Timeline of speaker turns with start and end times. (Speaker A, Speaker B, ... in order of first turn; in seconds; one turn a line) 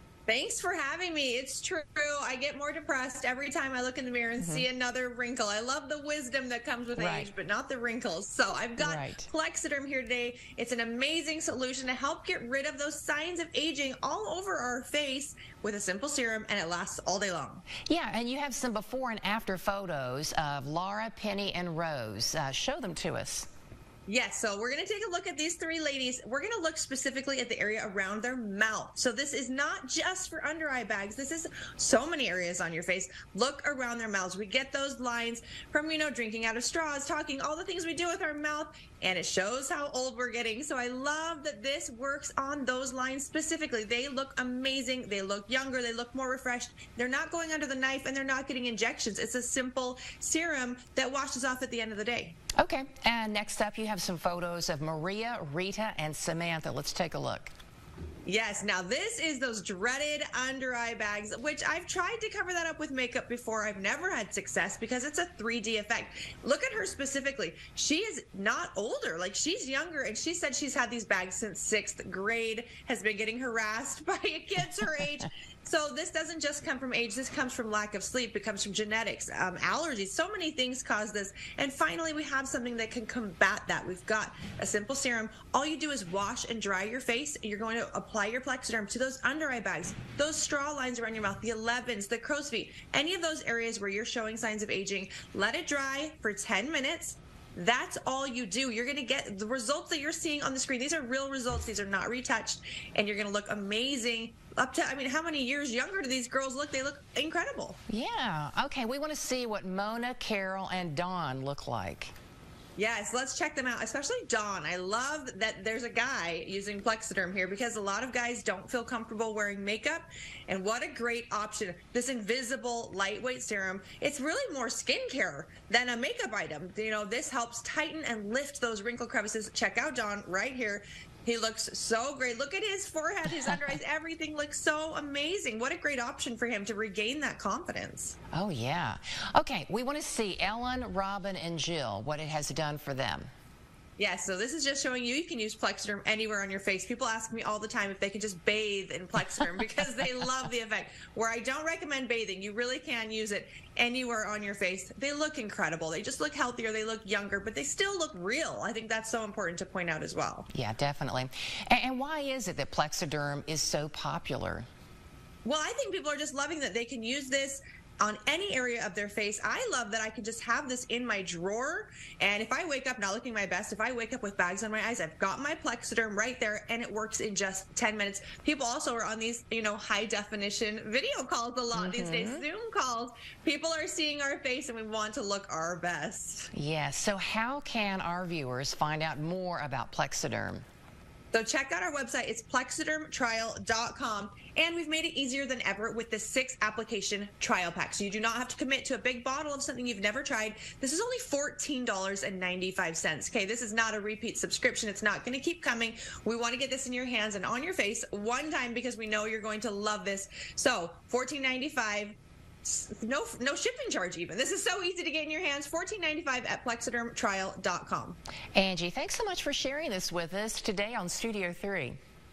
Speaker A: 0.3-17.6
Speaker B: 4.4-4.6
Speaker B: 7.0-7.3
Speaker B: 8.8-9.3
Speaker B: 17.9-23.5
Speaker A: 24.1-52.4
Speaker B: 52.6-57.5
Speaker A: 58.2-107.8
Speaker B: 107.9-112.1
Speaker A: 112.8-138.2
Speaker B: 138.3-143.3
Speaker A: 144.0-160.5
Speaker B: 160.5-164.7
Speaker A: 165.4-186.5
Speaker B: 181.7-182.4
Speaker B: 186.5-190.6
Speaker A: 191.3-218.2
Speaker B: 218.5-222.0